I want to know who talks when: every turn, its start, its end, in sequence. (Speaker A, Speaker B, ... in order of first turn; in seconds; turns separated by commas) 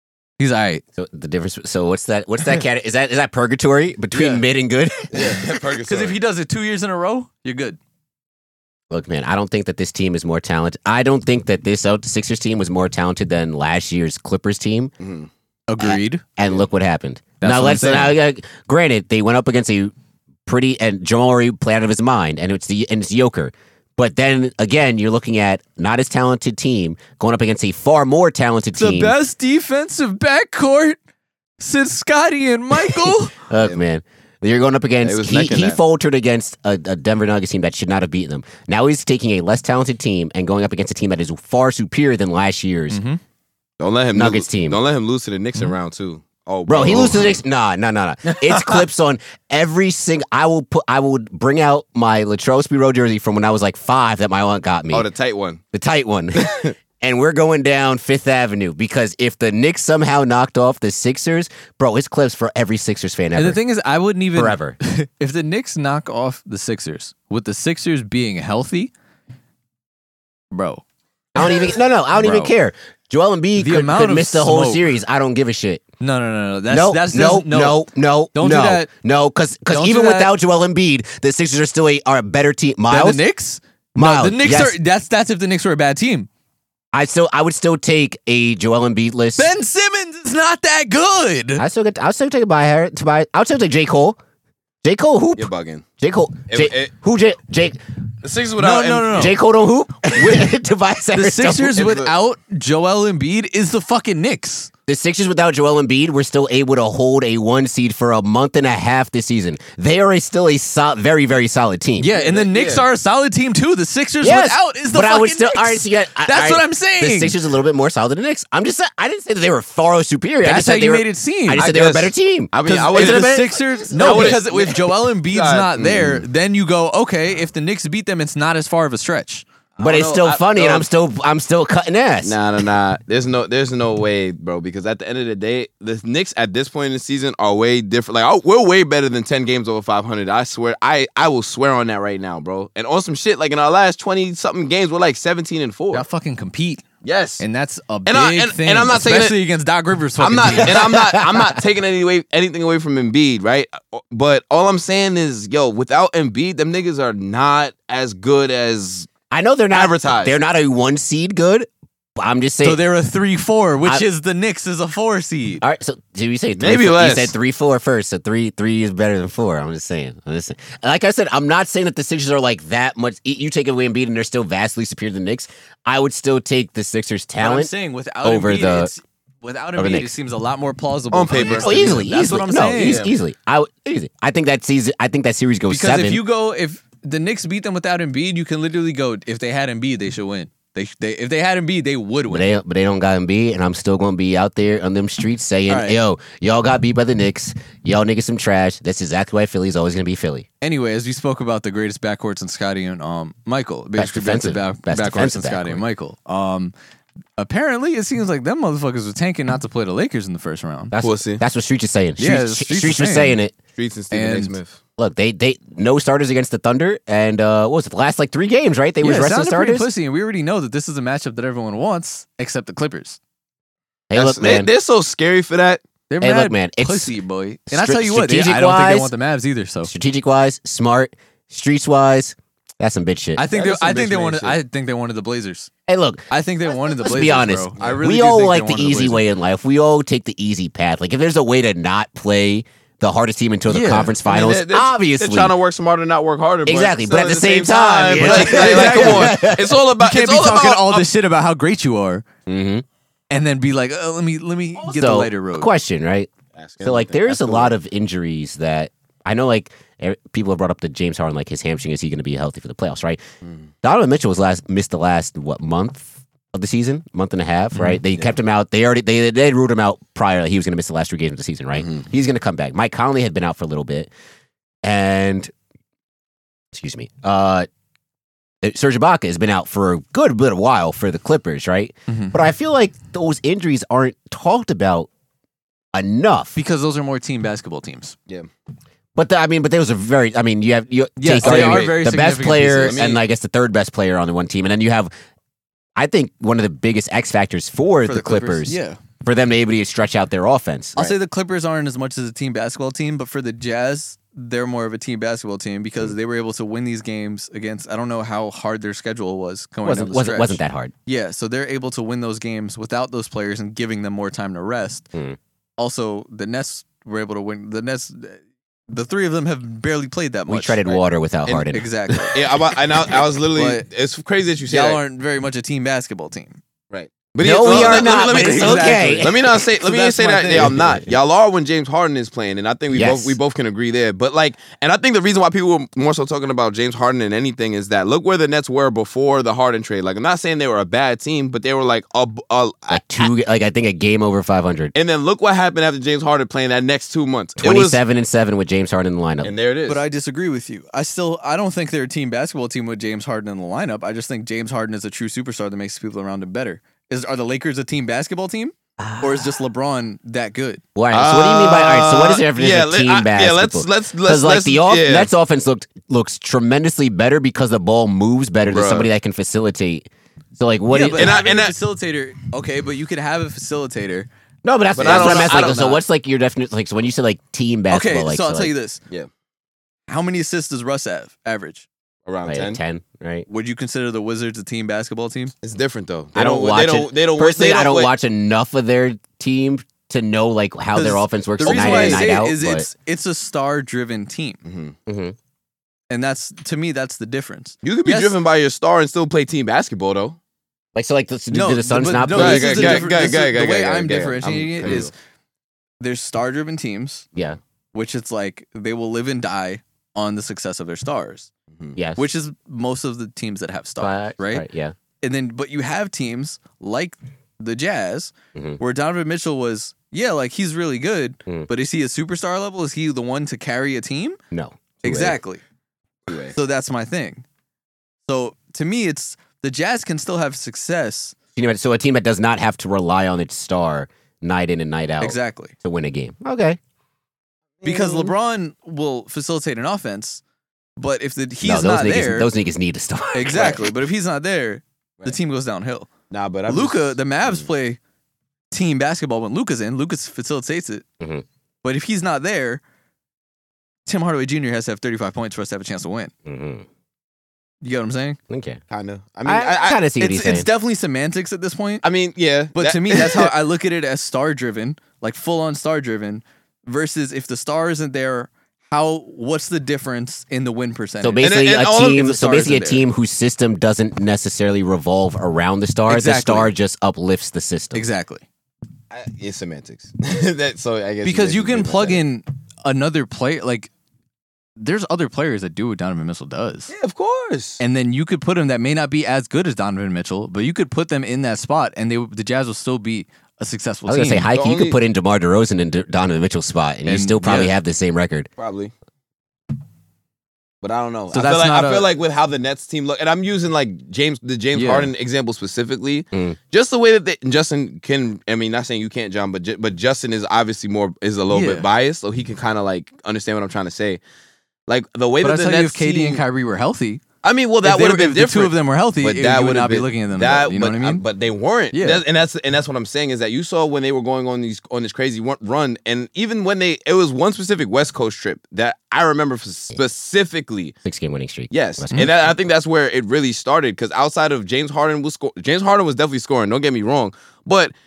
Speaker A: 0.4-0.8, Speaker B: 1.0-5.4, Speaker A: 4.1-4.4, Speaker C: 5.1-6.2, Speaker A: 5.8-7.8, Speaker B: 8.9-14.9, Speaker C: 15.0-15.3, Speaker A: 15.7-16.2, Speaker B: 15.8-19.9, Speaker A: 17.4-18.2, Speaker B: 20.4-29.1, Speaker A: 28.8-31.0, Speaker A: 31.6-33.3, Speaker B: 33.5-43.0, Speaker C: 35.0-35.8, Speaker A: 42.9-43.2, Speaker C: 43.8-47.4, Speaker B: 44.1-44.8, Speaker B: 46.7-55.1, Speaker C: 48.4-48.8, Speaker C: 54.9-55.6, Speaker B: 55.7-63.6, Speaker C: 56.4-56.7, Speaker A: 63.4-68.9, Speaker B: 64.3-64.8, Speaker A: 70.5-70.8, Speaker B: 71.3-75.8, Speaker A: 72.1-72.5, Speaker A: 73.6-74.9, Speaker A: 76.0-78.9, Speaker B: 76.7-83.2, Speaker A: 79.7-80.3, Speaker A: 82.9-86.3, Speaker B: 84.0-84.8, Speaker B: 86.9-89.5, Speaker A: 89.4-91.6, Speaker B: 91.6-94.2, Speaker B: 94.8-97.8, Speaker C: 95.4-95.8, Speaker C: 96.5-96.9, Speaker C: 98.2-99.3, Speaker A: 98.6-99.4, Speaker B: 99.1-101.8, Speaker A: 101.1-104.7, Speaker C: 101.8-102.1, Speaker B: 104.9-112.1, Speaker A: 112.0-117.4, Speaker C: 112.1-112.8, Speaker B: 114.2-124.4, Speaker A: 120.4-121.7, Speaker C: 121.5-126.2, Speaker A: 122.6-129.4, Speaker C: 129.8-130.9, Speaker B: 129.8-132.4, Speaker C: 132.2-146.1, Speaker A: 145.9-146.8, Speaker C: 147.0-147.4, Speaker A: 147.4-150.9, Speaker C: 148.1-149.3, Speaker C: 150.2-159.1, Speaker B: 150.7-151.5, Speaker B: 159.3-161.7, Speaker C: 159.7-160.3, Speaker B: 162.2-162.8, Speaker A: 162.6-165.6, Speaker B: 165.6-177.7, Speaker C: 166.6-167.3, Speaker A: 177.4-183.1, Speaker B: 178.2-178.9, Speaker B: 179.8-180.1, Speaker C: 181.1-182.0, Speaker B: 181.6-186.2, Speaker C: 182.8-183.1, Speaker A: 185.7-192.5, Speaker B: 192.3-200.4, Speaker A: 195.7-196.0, Speaker A: 200.6-206.7, Speaker B: 204.0-205.8, Speaker A: 207.4-210.9, Speaker B: 210.9-213.5, Speaker C: 211.0-211.4, Speaker A: 212.2-213.4, Speaker C: 213.8-214.8, Speaker A: 214.1-214.5, Speaker B: 215.0-219.9, Speaker A: 219.0-223.2, Speaker B: 224.1-224.7, Speaker C: 224.1-225.8, Speaker A: 226.1-229.9, Speaker B: 226.2-227.1, Speaker B: 227.7-229.1, Speaker B: 229.8-233.4, Speaker A: 233.4-235.7, Speaker C: 233.5-234.6, Speaker B: 235.9-245.6, Speaker A: 236.3-239.2, Speaker C: 237.8-238.0, Speaker A: 243.7-244.1, Speaker C: 244.2-251.1, Speaker B: 246.7-249.7, Speaker A: 248.1-252.2, Speaker B: 252.5-252.8, Speaker A: 253.3-255.7, Speaker B: 254.8-256.3, Speaker C: 256.5-257.7, Speaker B: 256.8-263.2, Speaker B: 263.8-274.1, Speaker A: 267.7-268.0, Speaker B: 274.8-275.5, Speaker B: 276.7-277.7, Speaker B: 278.6-285.1, Speaker A: 282.1-282.3, Speaker B: 285.9-286.6, Speaker A: 286.6-288.1, Speaker B: 289.1-295.1, Speaker A: 291.2-293.1, Speaker C: 291.4-292.0, Speaker C: 292.8-293.2, Speaker B: 295.9-301.0, Speaker A: 298.1-299.0, Speaker A: 300.9-315.1, Speaker B: 309.8-310.9, Speaker A: 315.8-321.0, Speaker B: 320.5-321.9, Speaker A: 321.7-322.4, Speaker C: 322.3-325.0, Speaker A: 323.5-323.8, Speaker A: 324.7-326.6, Speaker C: 326.9-343.3, Speaker B: 327.4-329.6, Speaker A: 327.6-330.8, Speaker B: 330.5-331.0, Speaker B: 332.9-333.4, Speaker B: 342.9-344.9, Speaker C: 344.9-348.0, Speaker B: 347.6-349.5, Speaker C: 349.4-350.0, Speaker A: 349.9-360.8, Speaker B: 359.0-359.5, Speaker B: 360.9-370.1, Speaker C: 361.1-365.3, Speaker C: 368.7-369.1, Speaker B: 370.6-371.4, Speaker A: 370.9-374.3, Speaker C: 371.1-371.7, Speaker B: 374.6-378.7, Speaker C: 374.9-375.8, Speaker A: 375.0-376.0, Speaker A: 377.9-379.0, Speaker A: 380.1-381.9, Speaker C: 382.2-382.8, Speaker B: 382.4-383.5, Speaker A: 383.5-385.5, Speaker C: 385.6-388.1, Speaker B: 386.3-392.9, Speaker A: 390.9-394.6, Speaker C: 391.6-392.3, Speaker C: 394.6-394.9, Speaker B: 395.1-395.3, Speaker A: 396.1-398.3, Speaker C: 397.8-400.4, Speaker B: 400.9-403.1, Speaker A: 401.5-405.1, Speaker C: 402.3-405.1, Speaker A: 406.0-407.3, Speaker A: 407.9-411.5, Speaker B: 411.9-412.2, Speaker A: 412.2-414.6, Speaker B: 414.0-414.9, Speaker A: 415.2-424.4, Speaker B: 418.5-418.8, Speaker B: 424.5-425.4, Speaker A: 425.0-425.6, Speaker C: 426.3-426.5, Speaker A: 426.5-427.4, Speaker A: 428.3-431.3, Speaker B: 431.6-436.8, Speaker A: 435.2-435.7, Speaker C: 437.8-438.3, Speaker A: 437.8-440.4, Speaker A: 441.0-442.5, Speaker B: 441.6-443.8, Speaker A: 443.3-446.1, Speaker C: 446.3-447.2, Speaker A: 446.7-448.0, Speaker A: 448.7-451.0, Speaker A: 451.8-452.8, Speaker A: 454.1-456.3, Speaker B: 456.4-456.9, Speaker A: 457.8-458.4, Speaker B: 458.5-458.8, Speaker C: 458.9-460.0, Speaker B: 459.4-460.7, Speaker A: 460.2-462.1, Speaker C: 462.0-463.5, Speaker A: 462.7-473.0, Speaker B: 471.2-478.0, Speaker C: 471.4-472.5, Speaker A: 476.1-476.7, Speaker A: 477.9-478.4, Speaker C: 479.1-482.2, Speaker A: 481.2-483.9, Speaker A: 484.8-486.9, Speaker C: 486.9-487.8, Speaker A: 487.8-494.5, Speaker B: 494.1-498.5, Speaker C: 494.5-495.0, Speaker A: 497.1-497.7, Speaker C: 498.6-498.9, Speaker C: 500.8-514.2, Speaker A: 501.3-502.1, Speaker A: 504.7-505.1, Speaker A: 511.5-511.9, Speaker C: 514.9-516.4, Speaker A: 515.4-517.2, Speaker C: 517.4-530.9, Speaker A: 517.8-521.2, Speaker A: 521.9-522.2, Speaker B: 531.0-532.3, Speaker C: 531.7-537.9